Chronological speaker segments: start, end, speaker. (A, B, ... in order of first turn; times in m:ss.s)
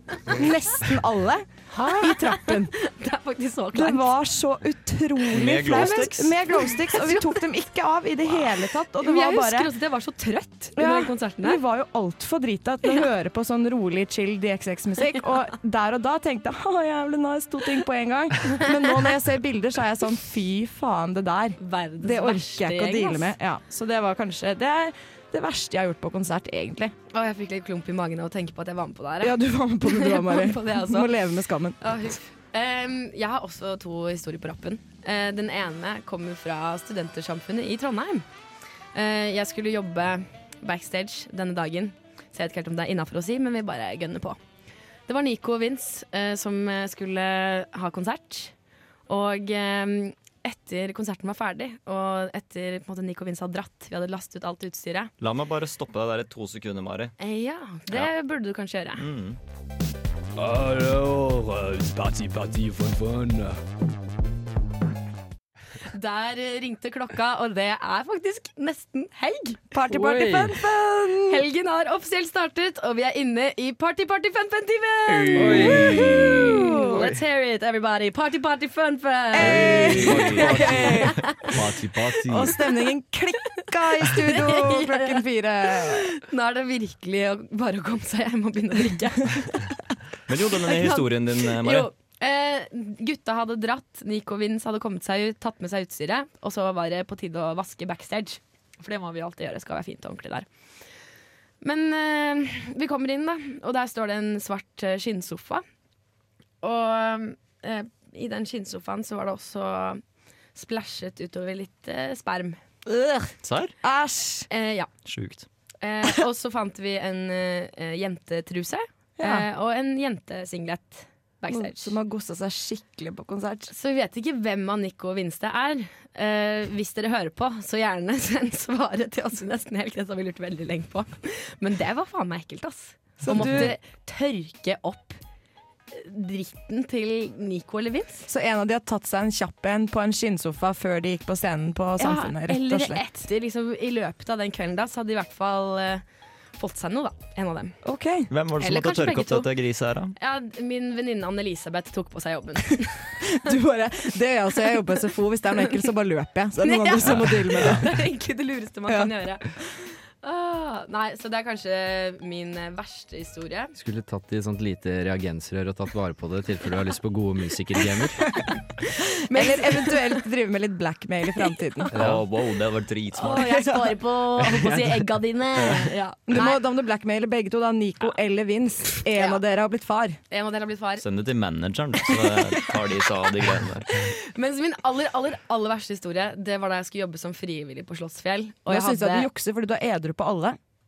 0:00.2-0:02.7 A
0:01.7-0:04.1 B
0:03.7-0:09.7 A
0:05.3-0:06.4 C
0:05.6-0:07.4 B
0:09.0-0:11.6 B
0:10.8-0:26.9 A
0:21.6-0:23.3 B
0:27.1-0:31.1 B
0:29.2-0:31.8 A
0:31.8-0:38.2 B
0:38.9-0:44.4 B
0:45.1-0:48.5 B
0:49.1-0:55.1 B
0:55.2-0:57.1 C
0:57.2-0:59.0 B
0:59.0-0:59.4 C
1:00.4-1:03.6 D
1:05.9-1:09.6 B
1:09.7-1:11.4 A
1:09.9-1:10.6 E
1:11.3-1:21.5 B
1:15.1-1:16.5 C
1:15.3-1:17.2 E
1:15.9-1:17.0 A
1:19.3-1:21.3 A
1:19.4-1:22.6 E
1:19.6-1:20.4 C
1:22.3-1:26.1 A
1:23.6-1:29.7 B
1:30.3-1:31.9 C
1:30.7-1:40.5 B
1:41.6-1:45.6 B
1:46.6-1:50.0 B
1:50.5-1:52.6 B
1:52.9-1:53.3 A
1:53.4-1:53.7 C
1:53.8-1:54.5 A
1:54.5-1:54.9 B
1:55.0-1:55.4 C
1:55.8-2:01.9 B
1:59.2-1:59.4 A
2:01.5-2:03.7 A
2:03.7-2:15.2 B
2:13.2-2:13.7 A
2:15.9-2:18.3 B
2:18.3-2:23.0 A
2:22.0-2:26.0 B
2:26.6-2:27.8 B
2:27.8-2:28.3 A
2:28.3-2:30.1 C
2:28.6-2:29.5 B
2:30.2-2:33.2 B
2:33.3-2:38.0 A
2:36.6-2:39.6 B
2:37.0-2:37.8 C
2:40.2-2:43.7 B
2:43.8-2:48.2 E
2:49.3-2:50.1 B
2:49.3-2:52.0 A
2:51.9-2:52.2 E
2:51.9-2:53.5 C
2:53.1-2:56.6 B
2:53.2-2:54.0 A
2:54.4-2:55.9 E
2:56.3-3:00.2 A
2:59.1-2:59.4 B
3:00.3-3:01.0 B
3:01.0-3:04.1 C
3:04.0-3:09.3 B
3:08.7-3:10.6 A